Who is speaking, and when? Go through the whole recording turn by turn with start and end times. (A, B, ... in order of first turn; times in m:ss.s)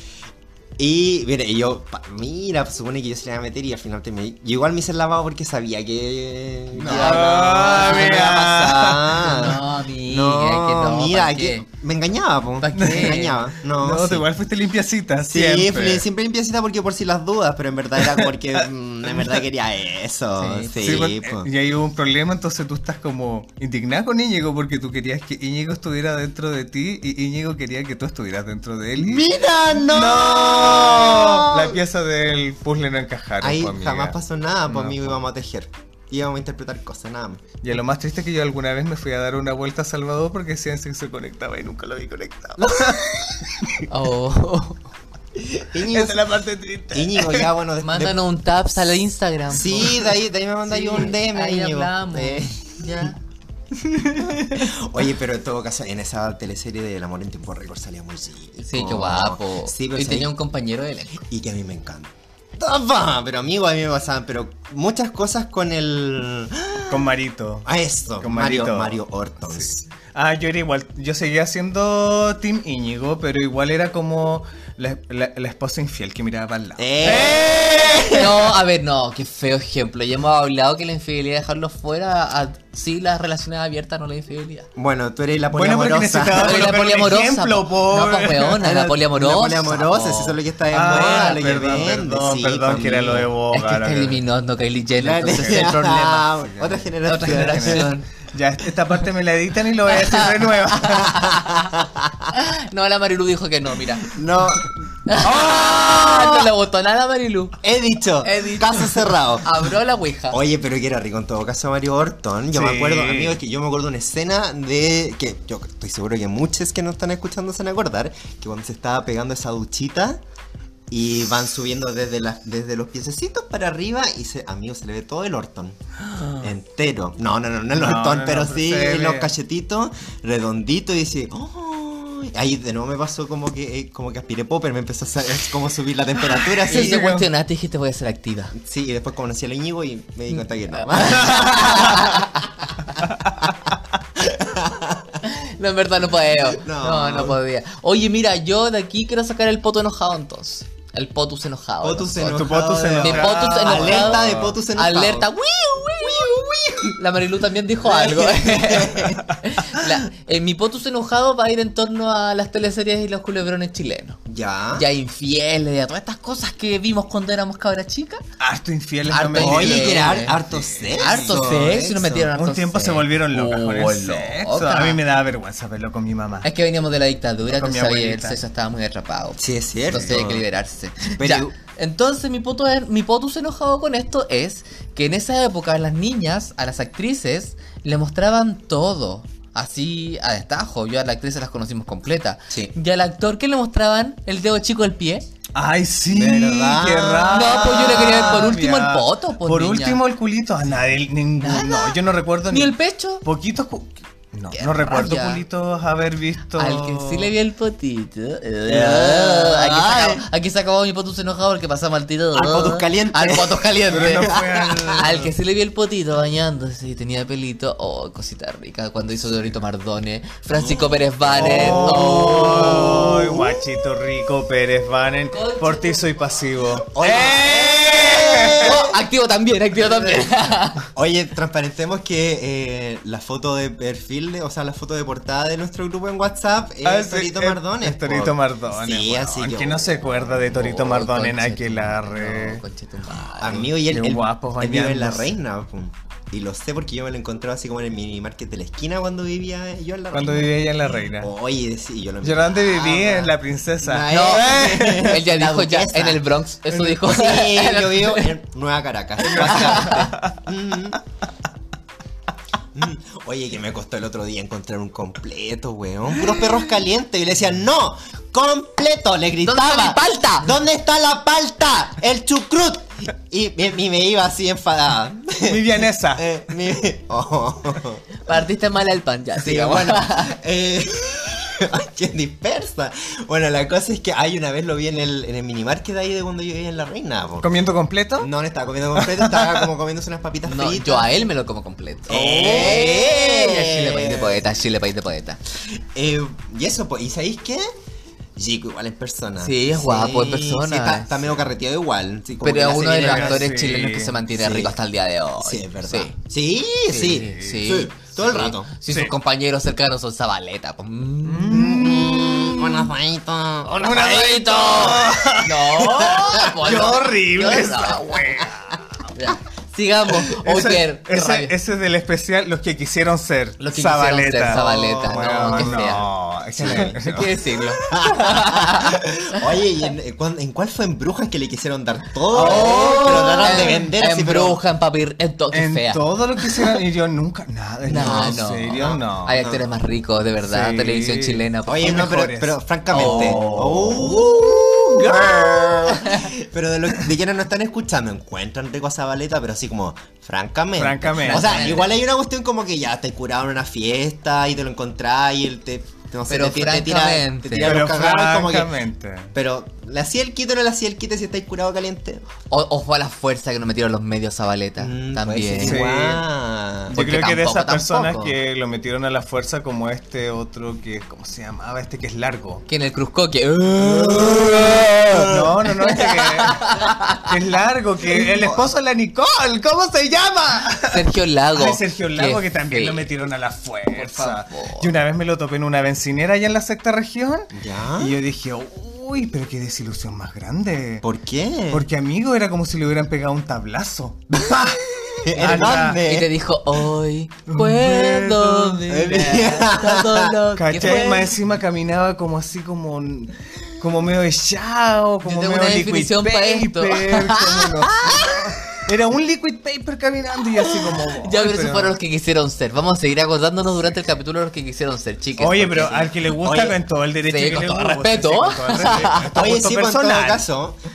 0:00.8-0:14.3 A
0:06.8-0:09.3 B
0:06.9-0:08.4 C
0:09.2-0:11.7 C
0:12.6-0:13.4 C
0:12.8-0:16.0 B
0:15.3-0:21.5 A
0:20.4-0:21.0 C
0:20.8-0:29.3 B
0:29.0-0:31.8 A
0:29.8-0:34.2 B
0:33.4-0:37.4 A
0:34.7-0:35.2 B
0:37.6-0:43.8 B
0:42.6-0:43.0 A
0:43.9-0:44.8 C
0:45.4-0:46.2 A
0:45.9-0:47.5 B
0:46.9-0:48.2 A
0:47.8-0:50.1 C
0:49.5-0:53.1 A
0:50.7-0:53.2 C
0:54.2-1:00.3 A
0:58.6-1:01.2 C
1:01.2-1:07.1 A
1:06.9-1:07.7 B
1:07.6-1:09.9 A
1:08.2-1:09.0 B
1:09.6-1:18.1 B
1:16.8-1:18.5 A
1:18.1-1:24.7 C
1:24.8-1:26.6 A
1:25.5-1:28.6 B
1:26.4-1:31.5 C
1:28.6-1:33.3 A
1:30.7-1:34.2 B
1:33.5-1:36.3 C
1:35.0-1:38.0 A
1:35.2-1:35.8 B
1:36.6-1:41.3 B
1:37.0-1:38.0 C
1:39.9-1:41.7 C
1:41.0-1:42.3 A
1:42.3-1:44.1 C
1:44.0-1:46.5 A
1:45.1-1:47.6 C
1:47.6-1:49.7 A
1:48.2-1:50.4 C
1:50.3-2:00.2 A
1:52.5-1:53.4 B
2:00.9-2:05.8 A
2:06.4-2:17.1 A
2:07.7-2:09.3 B
2:16.5-2:17.3 B
2:16.7-2:18.6 C
2:18.6-2:22.2 A
2:20.7-2:22.5 C
2:21.3-2:22.0 B
2:24.2-2:25.2 A
2:25.2-2:44.2 C
2:26.5-2:27.4 A
2:31.8-2:35.3 A
2:32.3-2:34.6 B
2:36.0-2:37.0 A
2:37.8-2:39.2 A
2:44.3-2:44.9 A
2:44.8-2:48.2 C
2:48.4-2:51.7 B
2:49.1-2:50.4 C
2:49.4-2:52.3 A
2:51.0-2:55.0 C
2:52.3-2:56.5 B
2:56.4-3:15.3 C
2:57.5-2:58.4 B
2:59.4-3:00.4 A
3:01.1-3:01.5 A
3:15.6-3:27.3 B
3:16.1-3:18.5 A
3:17.3-3:20.0 C
3:21.4-3:22.0 C
3:22.5-3:23.2 C
3:24.5-3:25.4 C
3:26.6-3:34.3 C
3:28.7-3:30.3 A
3:32.3-3:35.1 A
3:33.9-3:35.3 B
3:35.0-3:43.1 C
3:40.5-3:43.7 A
3:41.4-3:48.8 B
3:45.3-3:46.2 C
3:46.9-3:49.0 A
3:48.6-3:50.9 C
3:49.8-3:50.3 A
3:50.9-4:00.9 A
3:56.8-4:02.6 B
4:00.8-4:03.7 C
4:03.4-4:10.7 A
4:03.9-4:05.4 B
4:10.1-4:11.3 B
4:11.2-4:16.2 A
4:12.2-4:15.2 B
4:14.1-4:18.3 C
4:16.8-4:21.0 A
4:19.2-4:20.4 B
4:19.3-4:20.2 C
4:22.7-4:38.0 A
4:29.4-4:30.5 C
4:35.4-4:36.2 B
4:38.2-4:40.3 C
4:39.4-4:47.5 A
4:47.4-4:48.3 B
4:48.2-4:51.3 A
4:49.0-4:49.7 B
4:50.4-4:55.4 C
4:52.1-4:54.4 A
4:52.1-4:52.8 B
4:55.7-4:57.7 A
4:58.4-5:03.5 A
4:59.4-5:01.2 C
5:02.4-5:06.2 C
5:02.9-5:04.2 B
5:04.3-5:04.8 A
5:05.4-5:08.7 A
5:06.9-5:11.9 C
5:07.2-5:07.7 B
5:11.2-5:12.6 B
5:11.5-5:15.1 A
5:13.8-5:19.0 B
5:14.7-5:18.2 C
5:16.4-5:18.5 A
5:19.2-5:21.5 C
5:20.2-5:27.7 B
5:23.6-5:26.1 C
5:24.5-5:26.0 A
5:26.6-5:27.0 A
5:26.6-5:29.4 C
5:27.9-5:34.6 A
5:32.3-5:36.7 C
5:33.4-5:33.8 B
5:35.5-5:39.4 B
5:37.9-5:42.3 C
5:38.0-5:39.6 A
5:40.4-5:44.3 B
5:41.7-5:58.7 A
5:42.9-5:43.5 C
5:45.9-5:46.4 C
5:50.8-5:51.8 B
5:51.2-5:51.9 C
5:56.3-5:57.8 C
5:57.6-5:59.3 B
5:59.3-6:02.2 A
6:02.5-6:05.8 C
6:04.8-6:07.0 A
6:05.6-6:06.2 B
6:06.9-6:12.6 B
6:06.9-6:08.4 C
6:12.7-6:15.3 C
6:13.8-6:15.6 A
6:15.3-6:21.0 B
6:15.8-6:17.3 C
6:18.1-6:18.6 A
6:20.9-6:23.1 C
6:21.5-6:31.0 B
6:23.9-6:24.9 C
6:27.5-6:28.2 A
6:31.0-6:31.9 A
6:31.7-6:36.0 B
6:34.3-6:36.3 A
6:36.0-6:41.3 C
6:37.5-6:38.8 B
6:38.9-6:41.3 A
6:40.6-6:52.0 B
6:45.2-6:48.8 C
6:50.7-6:56.7 C
6:55.4-7:00.4 B
6:56.4-6:56.8 A
6:57.2-6:59.3 C
6:59.3-7:00.8 A